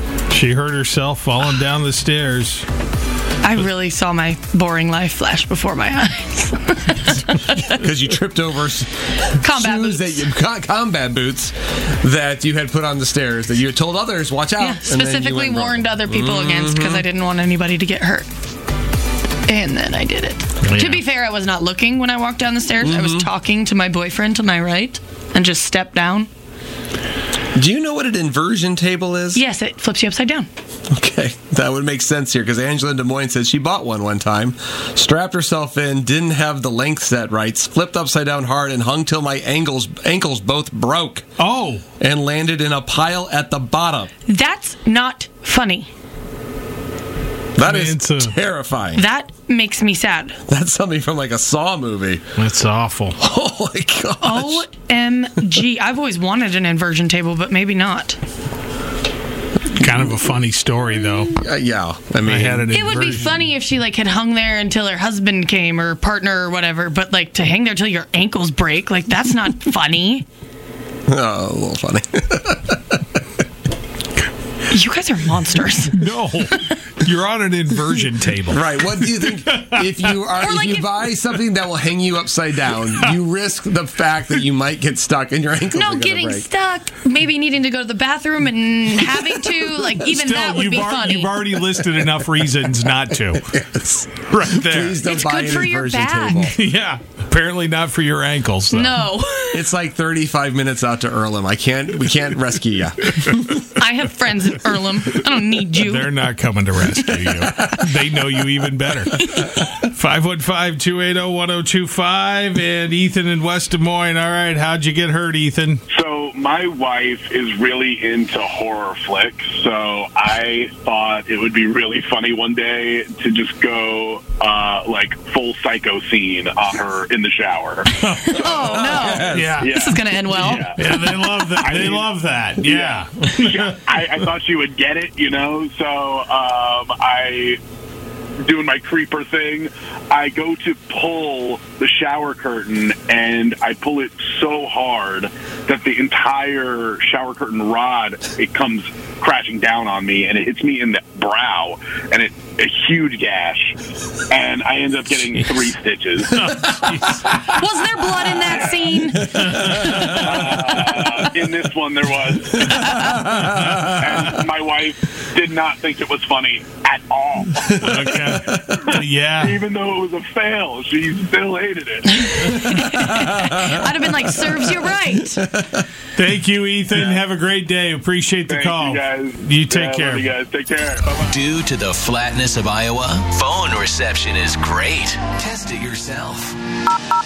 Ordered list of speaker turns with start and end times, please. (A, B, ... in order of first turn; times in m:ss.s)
0:00.3-0:02.6 A
0:03.4-0:07.8 B
0:07.6-0:17.0 C
0:09.4-0:10.2 B
0:14.6-0:18.3 B
0:19.5-0:26.3 B
0:20.6-0:21.0 A
0:22.8-0:23.3 C
0:27.5-0:29.4 C
0:29.3-0:30.5 B
0:30.9-0:41.2 C
0:41.4-0:41.8 A
0:42.0-0:44.1 C
0:44.3-0:45.9 B
0:47.6-0:49.0 C
0:47.6-0:48.3 A
0:48.9-0:50.4 B
0:50.5-0:52.2 C
0:52.4-0:53.2 A
0:53.2-0:54.6 C
0:54.2-0:58.2 B
0:59.7-1:01.3 A
1:01.3-1:03.1 C
1:02.2-1:03.5 A
1:02.7-1:10.2 B
1:11.1-1:12.8 C
1:14.7-1:16.0 B
1:15.9-1:19.8 A
1:18.5-1:26.5 C
1:20.4-1:20.9 B
1:25.7-1:31.3 B
1:30.0-1:35.1 A
1:33.4-1:36.6 C
1:35.0-1:36.5 B
1:36.4-1:39.0 A
1:38.7-1:39.7 B
1:39.5-1:43.6 C
1:43.8-1:46.1 B
1:45.8-1:55.8 A
1:55.9-2:17.6 D
2:08.0-2:10.7 B
2:08.6-2:09.6 C
2:09.3-2:09.9 A
2:10.4-2:14.0 A
2:18.4-2:33.8 D
2:34.3-2:36.7 D
2:36.4-2:37.5 A
2:37.4-2:40.2 B
2:38.4-2:39.0 D
2:39.3-2:40.3 A
2:40.0-2:52.6 D
2:42.8-2:43.1 B
2:47.6-2:49.6 A
2:52.2-2:55.5 B
2:53.2-2:53.7 C
2:55.5-2:55.8 C
2:56.1-3:00.2 A
2:58.5-3:01.2 D
3:01.2-3:06.6 E